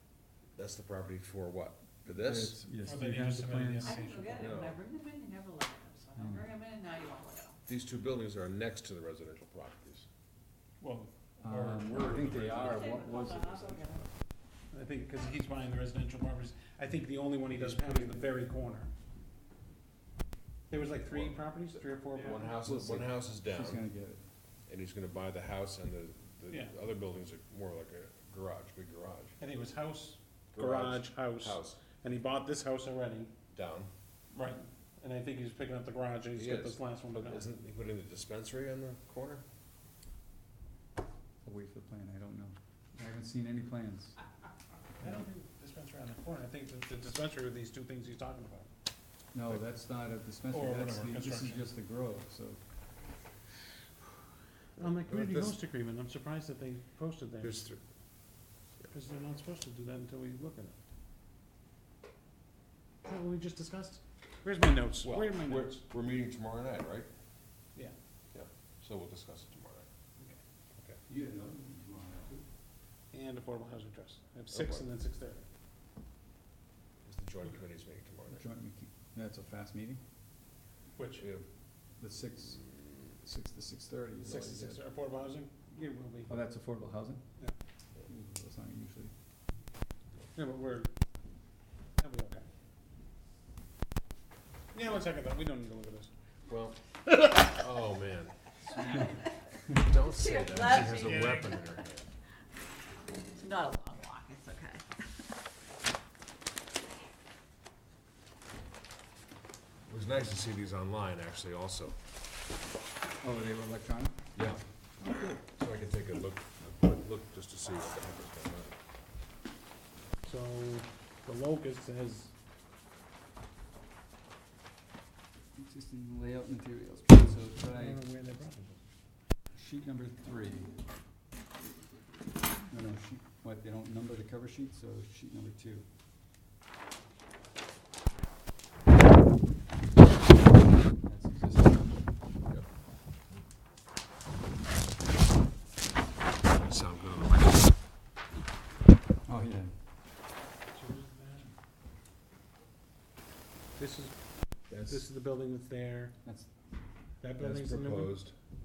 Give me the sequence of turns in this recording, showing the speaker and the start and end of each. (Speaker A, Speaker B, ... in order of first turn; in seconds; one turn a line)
Speaker A: 0.6-2.6
Speaker B: 2.1-4.0
Speaker C: 2.8-4.5
Speaker D: 3.8-7.6
Speaker A: 4.4-4.8
Speaker B: 6.2-6.5
Speaker A: 7.7-10.1
Speaker C: 10.8-12.8
Speaker B: 11.4-14.0
Speaker D: 12.6-14.1
Speaker C: 14.7-18.9
Speaker A: 17.6-18.0
Speaker C: 20.7-22.5
Speaker A: 20.7-23.8
Speaker B: 22.6-24.2
Speaker A: 24.7-29.4
Speaker C: 26.5-26.7
Speaker C: 29.4-33.4
Speaker A: 30.5-31.8
Speaker A: 33.5-33.9
Speaker C: 34.3-37.5
Speaker A: 36.4-39.4
Speaker B: 41.4-44.2
Speaker C: 45.0-48.7
Speaker B: 49.3-52.6
Speaker C: 50.5-51.6
Speaker C: 54.8-57.6
Speaker A: 54.8-55.6
Speaker A: 57.4-57.8
Speaker C: 58.9-60.8
Speaker C: 63.0-65.8
Speaker A: 65.0-67.1
Speaker A: 68.3-69.9
Speaker B: 71.1-72.4
Speaker C: 73.1-75.5
Speaker A: 74.5-74.9
Speaker A: 77.0-78.4
Speaker B: 78.3-80.0
Speaker C: 81.0-81.3
Speaker A: 81.2-81.5
Speaker B: 82.0-84.8
Speaker C: 84.2-86.3
Speaker B: 86.3-87.2
Speaker B: 88.1-89.1
Speaker C: 90.4-90.9
Speaker C: 92.0-92.5
Speaker C: 94.7-96.1
Speaker A: 96.5-98.4
Speaker A: 99.7-102.1
Speaker D: 99.9-101.7
Speaker C: 100.7-101.6
Speaker D: 103.3-105.2
Speaker A: 109.9-112.0
Speaker B: 113.2-114.2
Speaker A: 114.3-114.6
Speaker A: 115.5-118.8
Speaker C: 120.2-122.3
Speaker B: 125.6-128.0
Speaker C: 127.7-128.8
Speaker B: 129.6-130.7
Speaker B: 132.7-135.9
Speaker B: 141.0-142.1
Speaker A: 146.6-147.7
Speaker B: 149.3-149.7
Speaker C: 150.7-151.5
Speaker C: 153.8-154.2
Speaker C: 154.7-156.2
Speaker A: 154.7-155.0
Speaker B: 156.2-156.5
Speaker C: 157.2-158.2
Speaker A: 157.4-158.4